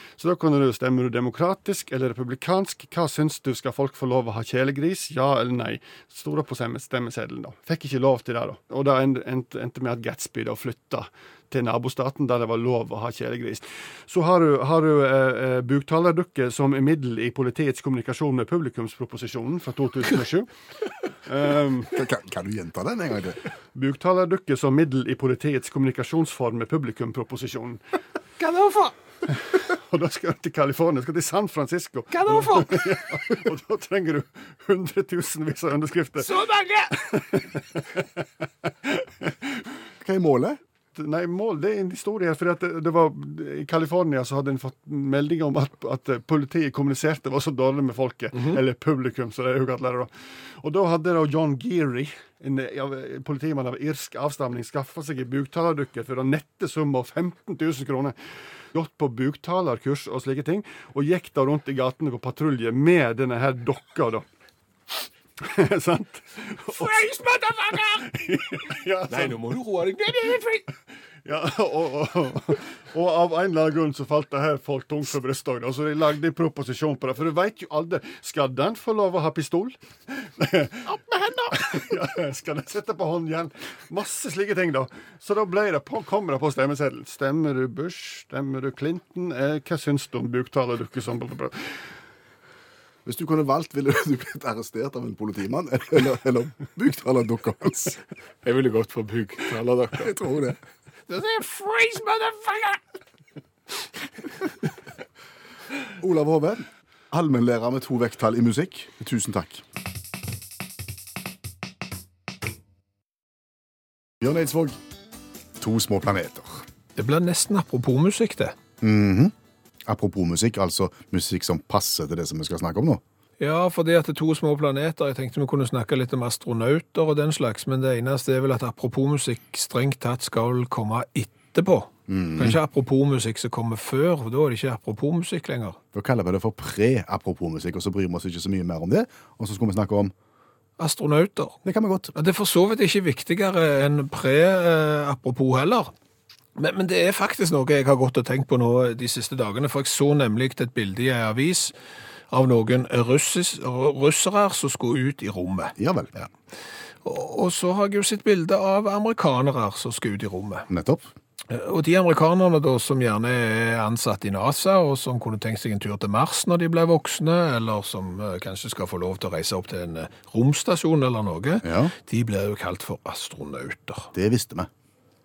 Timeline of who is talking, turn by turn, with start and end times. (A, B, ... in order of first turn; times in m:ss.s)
0:00.2-0:20.5 A
0:21.2-0:21.9 A
0:21.9-0:23.4 B
0:23.8-0:27.8 A
0:28.4-0:28.9 C
0:29.3-0:36.3 A
0:32.1-0:32.8 C
0:36.2-0:37.1 C
0:36.9-0:38.2 A
0:38.8-0:39.6 A
0:40.0-0:40.6 B
0:41.0-0:58.2 A
0:58.7-1:04.2 A
1:05.4-1:07.0 A
1:06.7-1:08.1 C
1:07.9-1:09.4 A
1:09.1-1:10.7 C
1:11.2-1:20.9 A
1:20.9-1:21.9 C
1:21.5-1:31.8 A
1:33.0-1:38.0 B
1:38.4-1:40.2 C
1:40.0-1:40.6 B
1:41.1-1:42.8 C
1:46.0-1:49.6 B
1:54.2-1:54.8 B
1:55.6-1:56.6 B
1:57.0-1:58.6 C
1:58.8-1:59.3 B
1:59.9-2:03.0 B
2:03.4-2:15.8 C
2:12.1-2:12.6 B
2:15.9-2:20.1 B
2:20.8-2:21.6 C
2:21.6-2:22.1 B
2:22.1-2:25.9 C
2:26.6-2:31.7 C
2:32.3-2:36.3 C
2:35.8-2:36.1 B
2:37.0-2:40.7 C
2:40.7-2:41.0 B
2:41.5-2:54.1 C
2:51.6-2:51.9 B
2:54.1-2:54.7 B